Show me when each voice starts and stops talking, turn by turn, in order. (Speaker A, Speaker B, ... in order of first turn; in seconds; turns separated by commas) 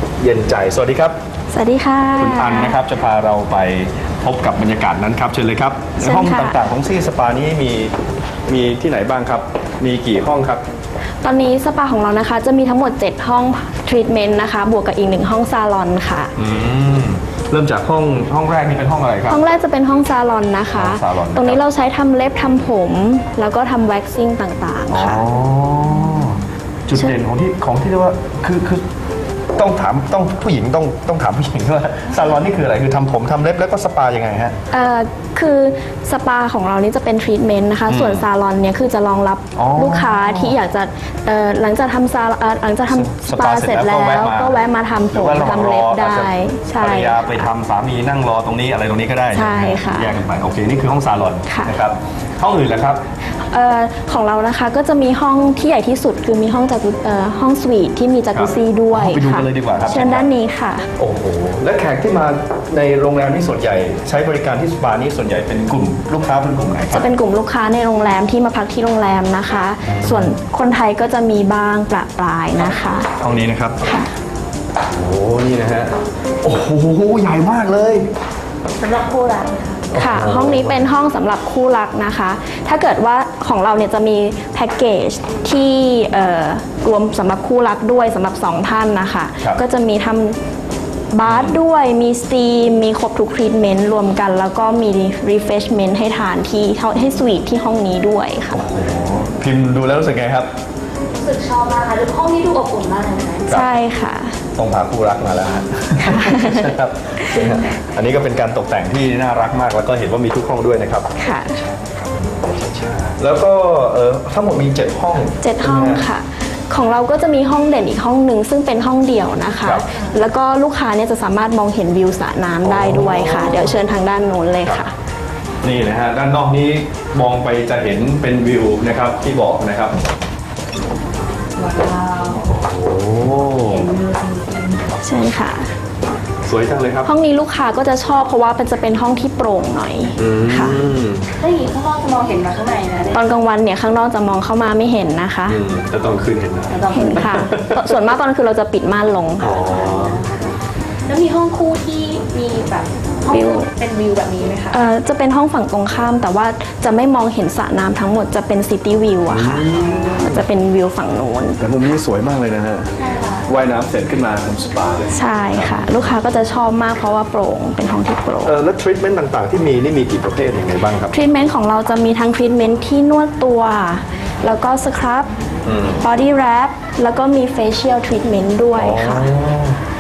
Speaker A: 0.2-1.2, Speaker B: 1.5-2.8, Speaker A: 2.2-8.0, Speaker B: 6.0-6.6, Speaker A: 8.5-10.6, Speaker B: 11.2-16.4, Speaker A: 16.4-19.4, Speaker B: 19.3-25.2, Speaker A: 20.7-21.6, Speaker A: 24.9-28.8, Speaker A: 29.6-34.6, Speaker B: 34.7-47.5, Speaker A: 37.9-38.3, Speaker A: 39.6-40.6, Speaker A: 42.9-53.0, Speaker B: 49.3-50.1, Speaker B: 51.5-51.7, Speaker B: 53.4-60.9, Speaker A: 58.3-60.3, Speaker A: 61.0-67.1, Speaker B: 66.9-73.1, Speaker A: 69.9-70.3, Speaker A: 73.2-73.8, Speaker B: 73.8-74.1, Speaker A: 74.8-78.1, Speaker C: 78.8-79.9, Speaker A: 79.9-80.9, Speaker B: 79.9-90.4, Speaker B: 91.1-98.7, Speaker A: 91.2-91.6, Speaker A: 98.5-100.5, Speaker C: 101.2-103.5, Speaker A: 103.5-103.8, Speaker B: 103.5-104.4, Speaker A: 104.6-111.3, Speaker B: 106.0-106.7, Speaker B: 111.2-111.6, Speaker A: 111.8-116.1, Speaker B: 115.4-124.9, Speaker A: 122.6-123.8, Speaker A: 125.6-130.0, Speaker C: 131.6-132.5, Speaker A: 132.4-133.9, Speaker C: 133.5-134.8, Speaker B: 135.0-135.7, Speaker A: 136.4-137.1, Speaker B: 137.1-140.8, Speaker A: 140.2-141.3, Speaker C: 141.4-143.2, Speaker B: 143.1-145.6, Speaker A: 145.5-147.9, Speaker C: 146.7-147.4, Speaker B: 146.9-149.7, Speaker A: 149.4-150.2, Speaker C: 149.4-154.8, Speaker B: 153.3-153.7, Speaker B: 154.7-161.6, Speaker A: 159.3-160.4, Speaker A: 161.6-162.9, Speaker C: 163.0-163.5, Speaker A: 163.5-166.1, Speaker B: 165.1-168.6, Speaker A: 168.4-171.1, Speaker B: 171.1-175.3, Speaker A: 175.7-176.1, Speaker B: 176.0-179.3, Speaker A: 178.7-179.8